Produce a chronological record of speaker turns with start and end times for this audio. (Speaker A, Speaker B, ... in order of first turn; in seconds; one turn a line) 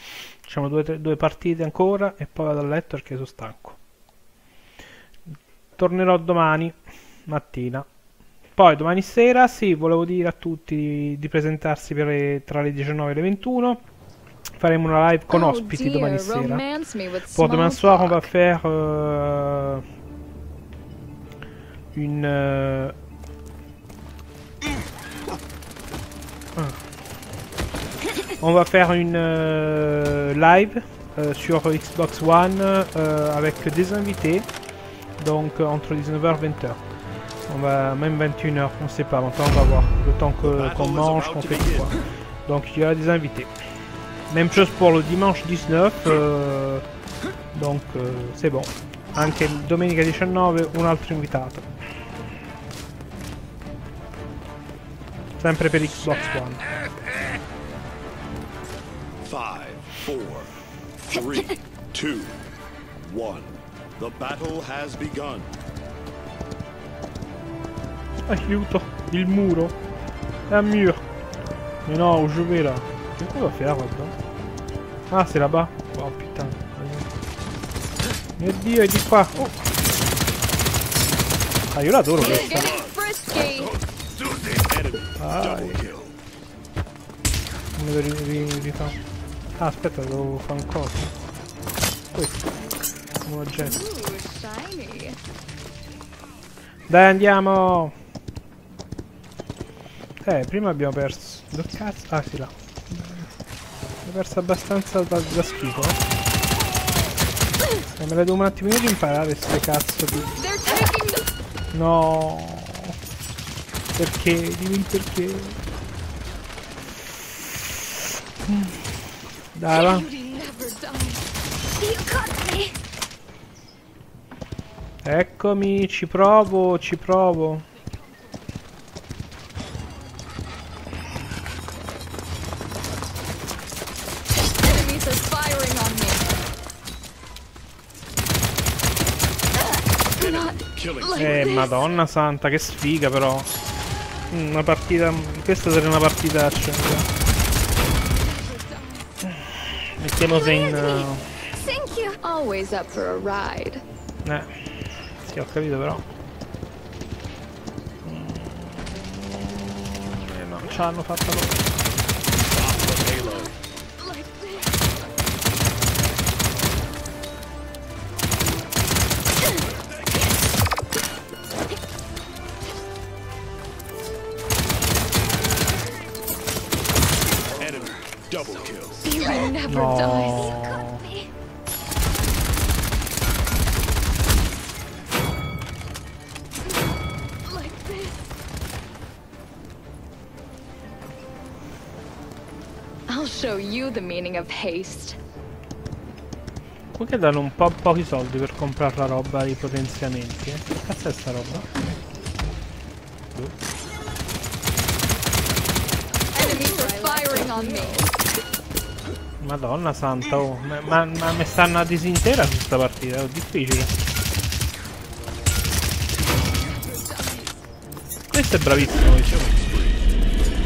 Speaker A: 0.4-3.8
Speaker A: 5.8-7.8
Speaker A: 8.6-13.8
Speaker A: 14.6-16.6
Speaker B: 15.3-18.3
Speaker A: 17.3-19.8
Speaker A: 21.9-22.9
Speaker A: 28.4-34.5
Speaker A: 35.2-36.8
Speaker A: 37.5-43.5
Speaker C: 40.4-42.0
Speaker A: 44.3-46.8
Speaker A: 47.5-51.6
Speaker A: 55.4-56.7
Speaker C: 59.2-62.4
Speaker C: 63.0-65.5
Speaker A: 68.3-69.8
Speaker A: 70.5-71.0
Speaker A: 71.8-74.1
Speaker A: 75.1-77.1
Speaker A: 78.4-79.6
Speaker A: 81.7-82.7
Speaker B: 82.2-83.7
Speaker C: 82.2-83.0
Speaker C: 84.2-86.2
Speaker A: 85.2-85.8
Speaker A: 87.8-89.0
Speaker A: 89.6-91.1
Speaker A: 92.1-92.5
Speaker A: 93.2-93.8
Speaker B: 93.6-95.2
Speaker A: 96.9-97.9
Speaker A: 100.2-103.3
Speaker A: 104.0-106.0
Speaker A: 108.0-110.3
Speaker B: 110.4-111.3
Speaker A: 111.7-113.0
Speaker A: 113.9-115.6
Speaker A: 118.5-118.8
Speaker A: 119.5-120.0
Speaker B: 119.7-121.2
Speaker B: 121.8-122.7
Speaker A: 125.0-127.7
Speaker B: 134.6-136.3
Speaker C: 140.2-141.5
Speaker B: 141.0-141.7
Speaker A: 141.2-143.5
Speaker A: 144.3-147.1
Speaker B: 148.3-149.0
Speaker A: 149.2-151.3
Speaker B: 151.6-153.8
Speaker A: 154.2-154.5
Speaker A: 155.2-156.0
Speaker A: 158.0-161.7
Speaker C: 162.4-163.6
Speaker C: 177.6-179.2
Speaker B: 179.0-181.1
Speaker A: 179.7-181.1
Speaker B: 187.5-188.1
Speaker B: 193.1-195.2
Speaker A: 196.9-201.7
Speaker B: 206.3-208.1
Speaker A: 209.4-213.9
Speaker A: 218.3-219.6
Speaker C: 218.7-220.1